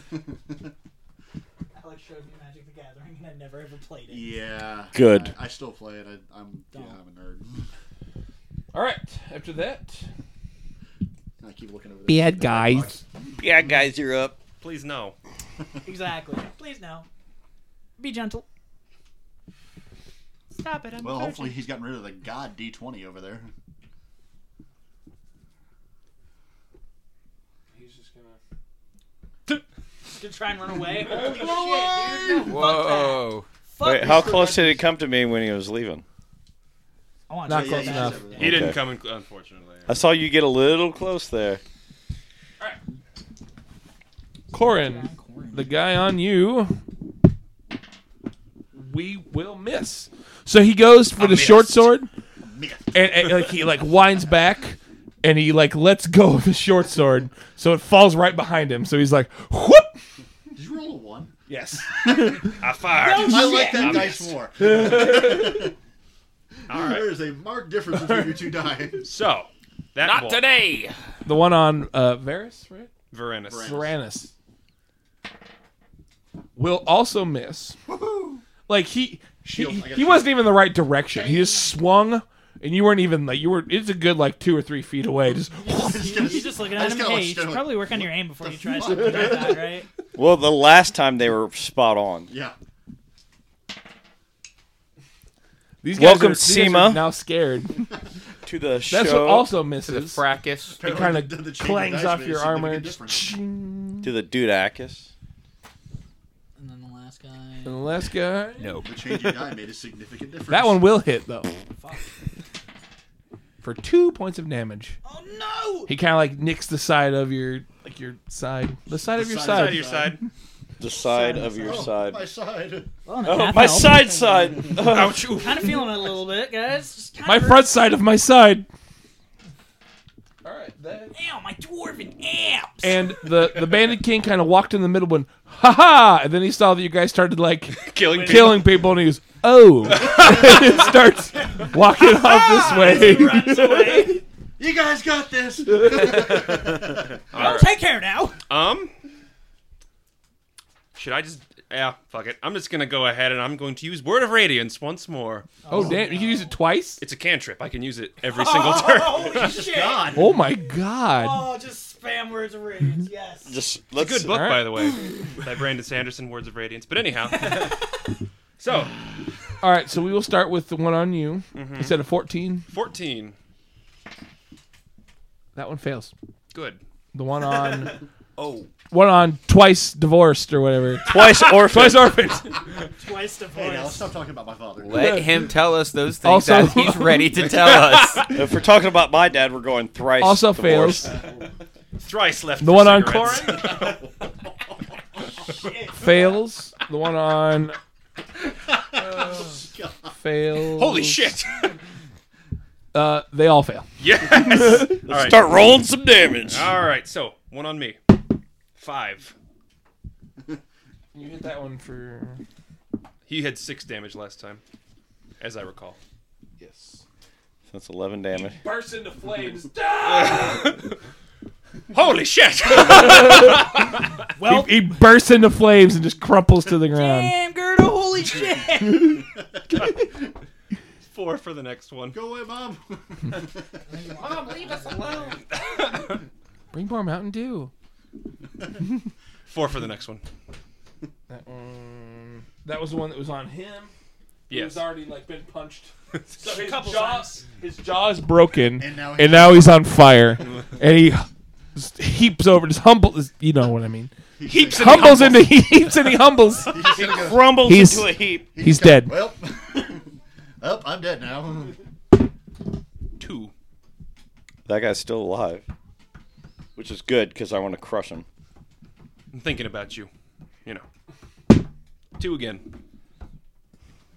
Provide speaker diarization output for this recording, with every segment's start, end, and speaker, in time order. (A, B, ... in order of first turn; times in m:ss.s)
0:00.2-0:00.5 A
0:01.7-0:04.4 B
0:04.1-0:07.7 A
0:04.9-0:05.3 C
0:06.7-0:07.0 B
0:08.7-0:10.0 D
0:11.4-0:13.7 A
0:12.1-0:13.0 D
0:13.4-0:14.4 C
0:14.6-0:15.2 E
0:15.8-0:17.1 B
0:18.0-0:18.4 B
0:20.5-0:21.6 E
0:21.0-0:23.5 A
0:27.7-0:28.4 D
0:30.0-0:34.8 B
0:31.2-0:32.5 A
0:32.4-0:33.4 F
0:33.8-0:36.0 C
0:37.3-0:38.5 B
0:37.5-0:38.4 D
0:37.5-0:38.7 A
0:38.4-0:38.8 C
0:38.4-0:40.0 E
0:39.9-0:41.6 C
0:44.5-0:46.7 D
0:44.5-0:45.7 B
0:48.7-0:52.1 D
0:51.2-0:51.9 E
0:52.4-0:53.2 A
0:52.9-0:59.9 D
1:00.5-1:01.3 A
1:01.5-1:02.6 D
1:02.0-1:02.5 A
1:02.6-1:04.3 E
1:03.0-1:04.2 B
1:03.2-1:05.8 A
1:04.6-1:05.7 D
1:06.7-1:09.1 A
1:06.7-1:07.1 E
1:08.1-1:08.3 D
1:09.0-1:10.4 E
1:10.0-1:11.0 F
1:11.2-1:12.9 D
1:13.1-1:13.8 E
1:13.5-1:13.9 A
1:13.6-1:14.3 D
1:16.6-1:17.8 D
1:17.8-1:18.4 A
1:18.7-1:26.3 D
1:19.4-1:20.6 A
1:25.6-1:29.5 A
1:25.6-1:29.9 B
1:30.2-1:32.3 C
1:32.3-1:32.5 A
1:35.8-1:37.9 D
1:35.9-1:37.1 C
1:38.4-1:39.6 C
1:38.9-1:40.2 D
1:39.8-1:40.8 F
1:40.8-1:43.4 A
1:40.8-1:44.1 D
1:44.0-1:45.1 C
1:46.6-1:48.0 B
1:47.6-1:48.8 D
1:48.6-1:48.8 F
1:48.8-1:50.9 A
1:50.5-1:51.5 D
1:51.8-1:52.1 B
1:53.6-1:55.0 D
1:55.0-1:55.9 B
1:55.9-1:59.9 D
1:59.0-2:00.2 A
1:59.4-2:00.2 E
2:00.8-2:02.2 C
2:00.9-2:01.9 B
2:01.6-2:02.9 A
2:03.0-2:04.2 B
2:03.2-2:05.4 C
2:04.8-2:05.8 E
2:05.2-2:07.9 B
2:07.2-2:08.7 D
2:10.4-2:11.1 D
2:11.1-2:13.1 B
2:12.8-2:24.1 D
2:17.7-2:18.8 E
2:18.1-2:18.5 B
2:19.9-2:20.8 E
2:22.0-2:24.2 B
2:22.6-2:23.7 A
2:24.6-2:27.2 A
2:25.8-2:26.3 D
2:27.3-2:27.6 F
2:27.3-2:27.7 E
2:27.3-2:28.4 B
2:28.5-2:28.9 E
2:30.9-2:35.5 E
2:35.6-2:36.6 B
2:35.7-2:37.0 D
2:37.0-2:39.6 E
2:38.2-2:40.2 B
2:39.1-2:40.4 A
2:40.1-2:41.5 D
2:41.1-2:43.6 B
2:43.4-2:44.5 C
2:44.0-2:47.8 E
2:44.3-2:44.9 D
2:48.6-2:49.0 E
2:49.6-2:52.6 D
2:51.5-2:52.0 E
2:52.7-2:53.4 E
2:55.5-2:56.1 D
2:56.5-2:56.8 E
2:57.1-2:58.0 D
2:58.4-2:58.7 F
2:58.9-3:02.7 D
3:01.0-3:02.2 C
3:03.0-3:04.1 B
3:03.5-3:05.2 A
3:04.8-3:08.3 F
3:04.9-3:05.5 D
3:06.2-3:07.5 D
3:07.6-3:08.3 E
3:08.3-3:11.1 C
3:10.2-3:11.2 D
3:12.0-3:14.0 E
3:12.6-3:13.8 D
3:13.7-3:14.0 A
3:15.4-3:16.3 B
3:15.9-3:17.8 D
3:18.5-3:20.2 A
3:20.1-3:21.3 D
3:20.8-3:21.8 E
3:22.9-3:25.0 D
3:24.0-3:25.4 E
3:24.9-3:26.8 C
3:26.5-3:28.0 E
3:28.8-3:29.3 E
3:31.1-3:32.4 D
3:33.3-3:34.6 E
3:35.4-3:36.0 E
3:36.6-3:37.0 D
3:37.7-3:38.6 C
3:38.3-3:40.8 D
3:40.0-3:40.9 E
3:41.9-3:44.0 E
3:42.9-3:43.7 D
3:44.4-3:44.8 B
3:44.4-3:47.3 D
3:46.9-3:49.2 B
3:48.8-3:49.2 D
3:51.0-3:52.2 E
3:52.1-3:53.7 A
3:53.8-3:55.4 B
3:54.2-3:55.5 F
3:55.5-3:56.2 E
3:56.7-3:57.7 D
3:59.5-4:00.2 E
4:01.3-4:03.9 D
4:04.5-4:04.8 E
4:04.5-4:19.3 D
4:06.4-4:07.4 B
4:08.8-4:10.1 A
4:14.4-4:15.5 A
4:14.6-4:15.5 E
4:16.6-4:17.7 A
4:16.7-4:18.6 C
4:18.6-4:21.8 A
4:23.2-4:23.5 E
4:24.6-4:25.6 C
4:26.8-4:28.2 C
4:29.3-4:30.1 E
4:32.2-4:32.6 E